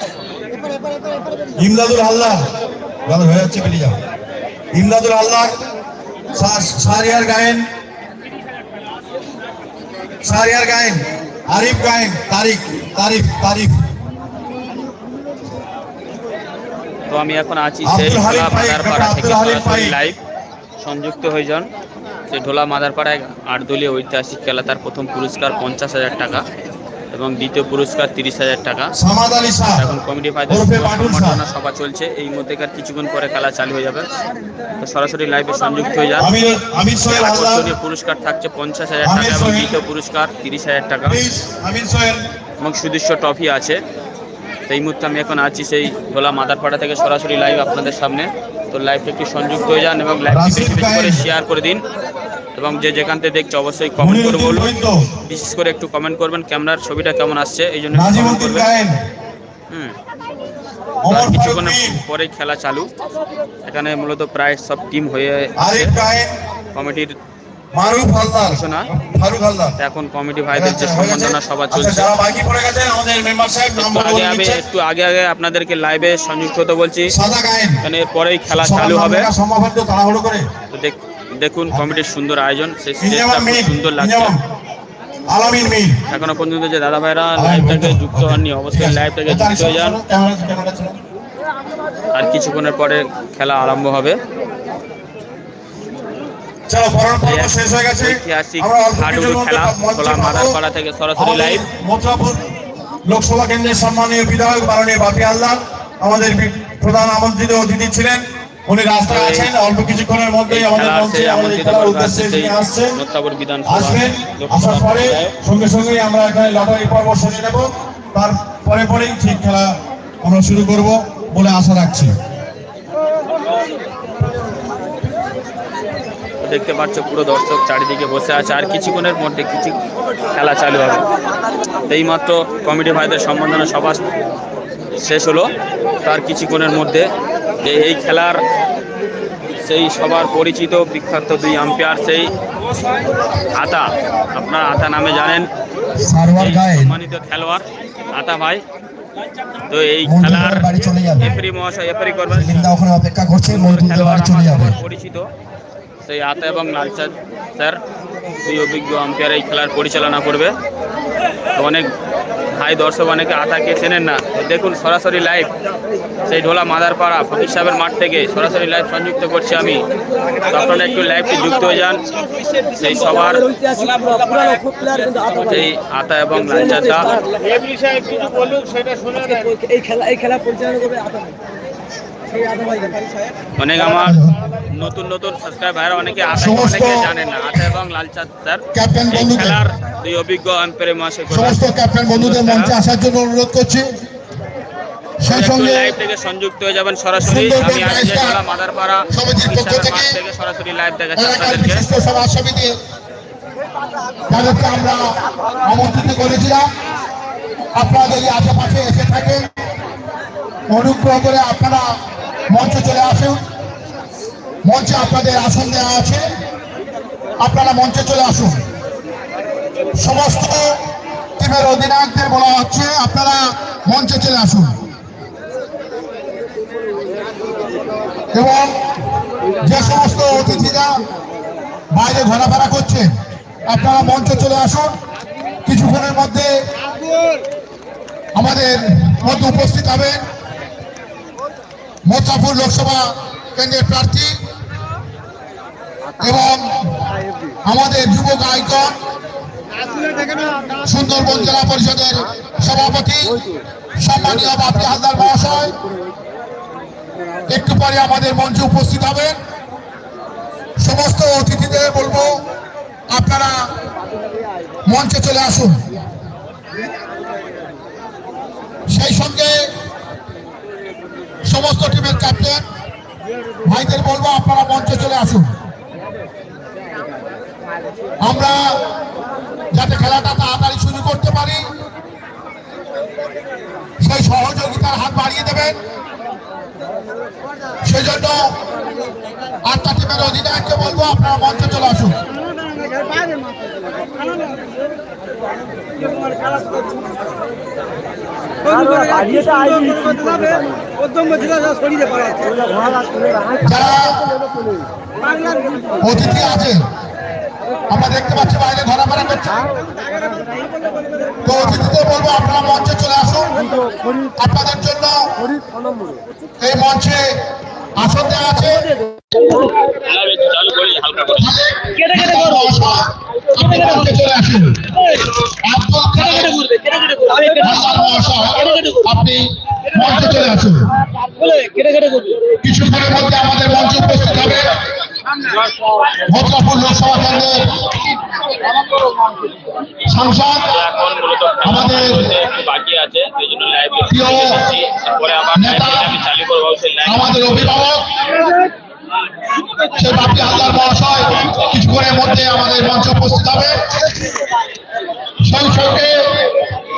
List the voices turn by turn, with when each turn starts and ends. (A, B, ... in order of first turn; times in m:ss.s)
0:01.6-0:02.4 A
0:03.1-0:04.0 A
0:04.7-0:05.6 A
0:06.3-0:07.7 A
0:10.2-0:13.8 A
0:17.1-0:20.2 B
0:17.8-0:20.0 A
0:20.8-0:21.7 B
0:22.3-0:26.4 B
0:27.1-0:28.9 B
0:29.0-0:29.9 A
0:29.7-0:34.2 B
0:30.5-0:31.4 A
0:34.8-0:36.3 B
0:36.2-0:37.7 A
0:37.1-0:41.2 B
0:39.0-0:39.8 A
0:41.0-0:42.2 A
0:42.6-0:43.8 B
0:44.7-0:51.8 B
0:50.3-0:51.3 A
0:52.6-0:54.7 B
0:54.0-0:55.0 A
0:55.2-0:58.7 B
0:57.9-0:59.0 A
0:59.7-1:00.0 B
1:01.0-1:02.0 A
1:01.1-1:02.9 B
1:03.6-1:05.9 B
1:05.6-1:06.3 A
1:06.7-1:07.2 B
1:07.8-1:09.8 A
1:08.4-1:08.9 B
1:09.8-1:12.1 B
1:10.5-1:14.6 A
1:13.8-1:17.2 B
1:17.1-1:17.8 A
1:17.8-1:19.3 B
1:18.5-1:20.4 A
1:20.7-1:24.4 B
1:23.0-1:24.4 A
1:25.3-1:26.0 A
1:26.1-1:30.0 B
1:27.4-1:31.0 A
1:32.1-1:34.2 B
1:36.7-1:40.6 A
1:37.2-1:41.6 B
1:41.2-1:42.4 A
1:43.1-1:52.9 A
1:49.1-1:49.5 B
1:50.5-1:55.4 B
1:53.7-2:02.1 A
2:06.4-2:09.8 B
2:10.3-2:11.0 B
2:11.9-2:14.0 B
2:14.9-2:15.5 B
2:16.0-2:17.1 B
2:17.6-2:18.4 B
2:19.6-2:22.3 B
2:23.5-2:25.5 B
2:26.0-2:26.9 A
2:26.3-2:28.6 B
2:29.7-2:32.7 B
2:30.1-2:31.3 A
2:32.3-2:34.7 A
2:33.4-2:35.3 B
2:36.0-2:37.8 B
2:38.4-2:40.6 B
2:41.6-2:41.9 B
2:42.5-2:45.5 B
2:46.2-2:49.9 B
2:50.4-2:52.0 B
2:52.7-2:53.6 B
2:53.8-2:55.1 C
2:55.2-2:57.2 B
2:59.3-3:01.3 C
3:03.6-3:12.8 B
3:03.9-3:04.3 D
3:06.3-3:07.1 D
3:08.7-3:09.6 D
3:11.3-3:14.0 D
3:15.2-3:15.9 D
3:15.3-3:21.9 B
3:17.2-3:18.4 D
3:19.1-3:20.2 D
3:21.2-3:22.8 D
3:24.3-3:26.7 D
3:27.8-3:29.5 D
3:30.7-3:31.8 D
3:32.5-3:33.4 D
3:34.6-3:36.2 D
3:37.4-3:38.6 D
3:39.9-3:40.8 D
3:41.4-3:44.8 D
3:48.3-3:48.7 D
3:49.6-3:51.0 D
3:51.9-3:53.1 D
3:53.7-3:55.0 D
3:55.7-3:56.5 D
3:58.3-4:00.2 D
4:02.0-4:04.4 D
4:06.2-4:09.0 D
4:10.7-4:13.4 D
4:14.0-4:15.8 D
4:17.5-4:19.4 D
4:20.8-4:22.4 D
4:23.1-4:23.7 D
4:24.8-4:25.8 D
4:28.9-4:29.7 D
4:31.4-4:32.6 D
4:33.6-4:35.6 D
4:38.2-4:38.8 D
4:39.7-4:41.6 D
4:44.0-4:45.8 D
4:47.8-4:48.6 D
4:49.6-4:52.2 D
4:59.0-5:00.6 C
5:03.6-5:04.4 D
5:06.0-5:06.8 D
5:07.9-5:09.7 D
5:11.4-5:13.7 D
5:14.4-5:15.3 D
5:16.6-5:17.4 D
5:18.0-5:19.0 D
5:19.4-5:21.5 B
5:21.4-5:26.8 D
5:27.1-5:27.4 B
5:27.5-5:31.0 D
5:31.5-5:32.3 C
5:32.5-5:34.9 D
5:36.2-5:38.2 D
5:40.0-5:40.8 D
5:40.7-5:47.4 B
5:41.6-5:42.3 D
5:44.1-5:44.7 D
5:45.5-5:46.2 D
5:47.1-5:48.4 D
5:49.8-5:54.1 D
5:55.4-5:56.8 D